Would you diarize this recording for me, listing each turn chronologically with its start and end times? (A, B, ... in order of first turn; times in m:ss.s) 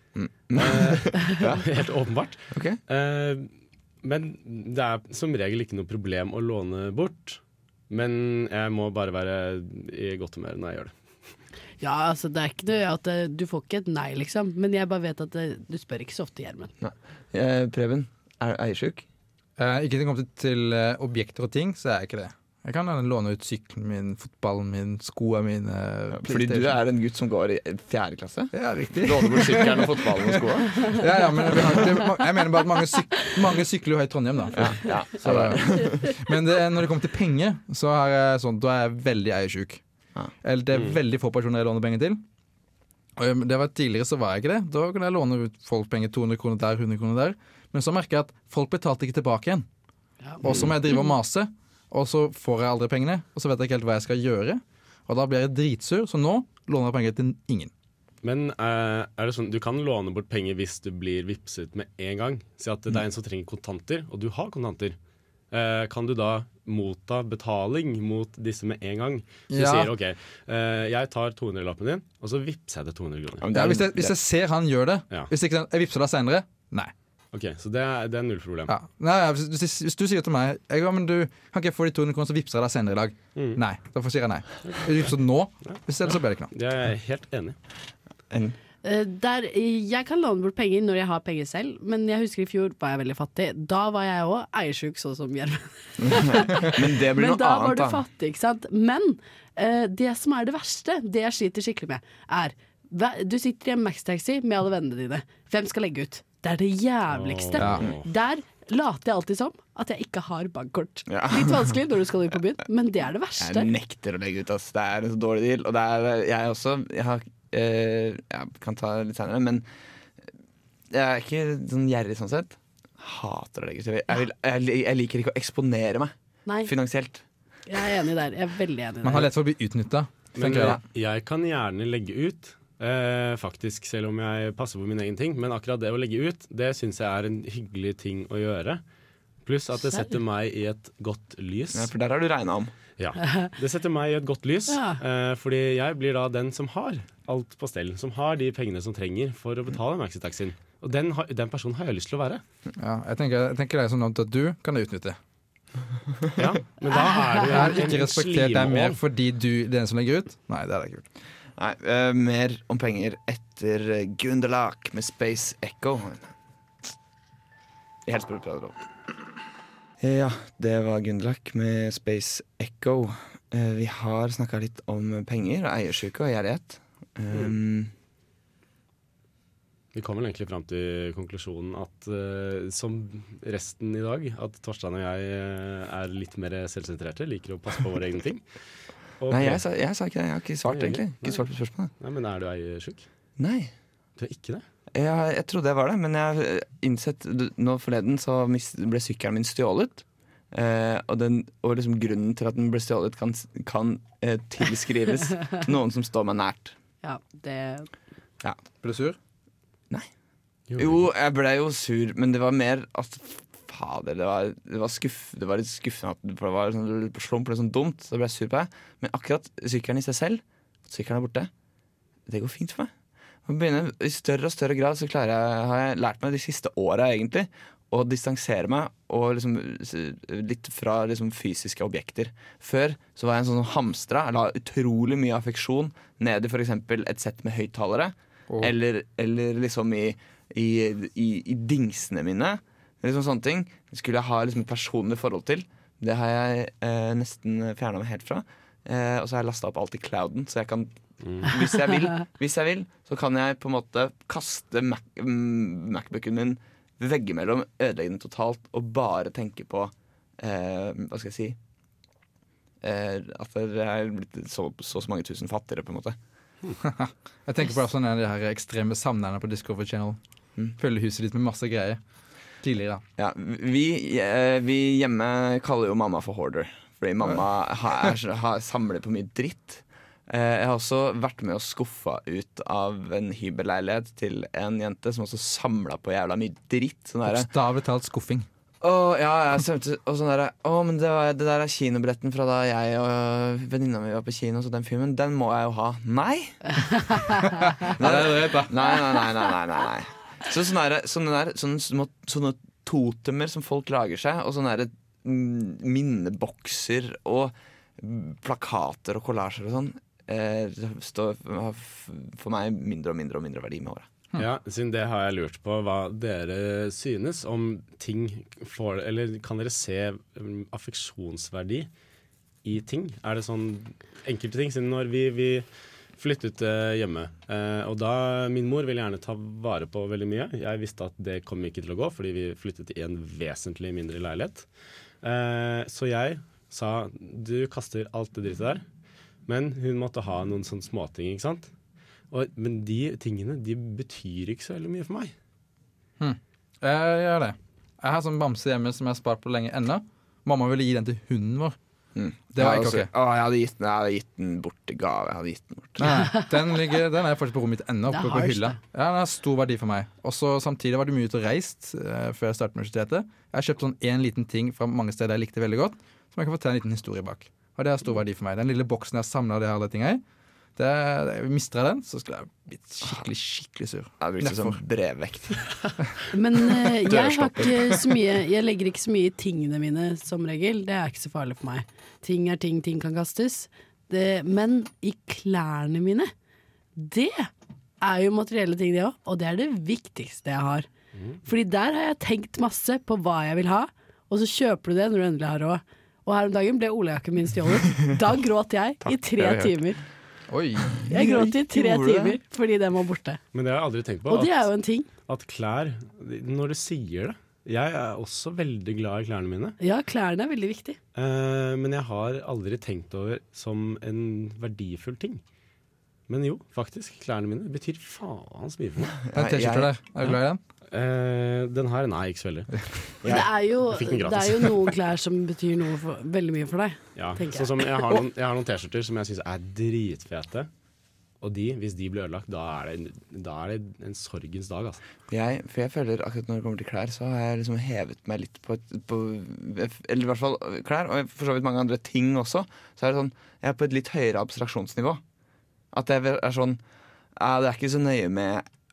0:00.1-0:01.7 A
0:00.5-0:03.5 B
0:02.5-0:02.8 A
0:04.0-0:10.9 B
0:11.8-0:16.7 C
0:16.8-0:19.0 A
0:19.6-0:26.7 D
0:26.1-0:31.0 A
0:28.5-0:39.8 D
0:34.6-0:36.1 A
0:40.4-0:42.2 D
0:43.2-0:49.7 D
0:50.4-0:57.7 D
0:50.4-0:50.7 B
0:58.2-1:05.0 B
1:05.5-1:13.5 B
1:09.5-1:09.9 D
1:13.4-1:14.2 A
1:13.5-1:16.9 D
1:17.3-1:18.7 B
1:18.7-1:26.5 D
1:23.4-1:23.6 B
1:24.6-1:27.6 B
1:28.3-1:28.6 A
1:28.8-1:53.7 C
1:36.0-1:38.0 A
1:47.1-1:48.0 B
1:47.6-1:47.8 D
1:51.1-1:51.7 A
1:53.4-1:59.6 A
2:00.9-2:06.1 A
2:06.4-2:06.7 C
2:06.6-2:07.2 A
2:07.7-2:09.3 C
2:09.0-2:10.8 D
2:10.3-2:18.8 B
2:19.4-2:21.9 B
2:21.7-2:22.7 A
2:23.0-2:32.4 B
2:24.7-2:25.0 C
2:32.8-2:35.2 D
2:36.4-2:39.0 B
2:37.5-2:41.0 D
2:41.6-2:46.3 A
2:48.1-2:48.8 A
2:50.0-2:57.9 A
2:59.9-3:08.4 B
3:09.2-3:09.6 B
3:09.3-3:11.9 A
3:10.7-3:11.4 B
3:12.0-3:13.1 B
3:13.4-3:13.7 A
3:14.2-3:14.6 B
3:14.9-3:26.8 A
3:27.0-3:27.9 C
3:28.8-3:29.2 D
3:30.7-3:31.1 B
3:30.8-3:41.5 A
3:42.3-3:42.9 A
3:43.4-4:21.6 A
4:11.2-4:11.5 B
4:22.8-4:26.2 A
4:26.8-4:30.2 D
4:30.8-4:32.0 D
4:32.6-4:33.0 D
4:33.2-4:47.5 A
4:47.3-4:48.5 D
4:48.8-4:56.6 A
4:57.7-4:58.8 D
4:57.9-5:14.1 A
5:14.4-5:21.9 B
5:22.6-5:25.6 B
5:26.2-5:34.7 B
5:35.2-5:38.8 B
5:39.5-5:41.7 B
5:42.3-5:45.3 B
5:46.2-5:51.8 D
5:52.1-5:56.2 A
5:52.6-5:53.1 D
5:56.0-6:10.2 D
5:56.1-5:56.5 C
5:58.1-5:58.8 C
6:10.8-6:14.8 D
6:14.2-6:15.6 A
6:16.3-6:26.3 C
6:17.1-6:17.7 A
6:17.2-6:17.7 B
6:27.0-6:30.9 C
6:31.4-6:40.0 C
6:39.0-6:39.9 A
6:40.5-6:41.0 D
6:40.9-6:42.4 A
6:41.1-6:43.4 C
6:43.5-6:44.7 B
6:44.3-6:45.1 C
6:45.3-6:49.8 B
6:49.8-6:51.0 C
6:51.1-6:55.4 B
6:56.3-6:59.2 B
6:59.3-6:59.9 A
6:59.3-7:00.6 D
7:00.9-7:02.8 B
7:03.2-7:07.7 C
7:03.9-7:04.9 B
7:07.2-7:10.7 B
7:11.4-7:15.0 B
7:15.3-7:25.2 A
7:25.9-7:26.8 A
7:27.4-7:28.6 A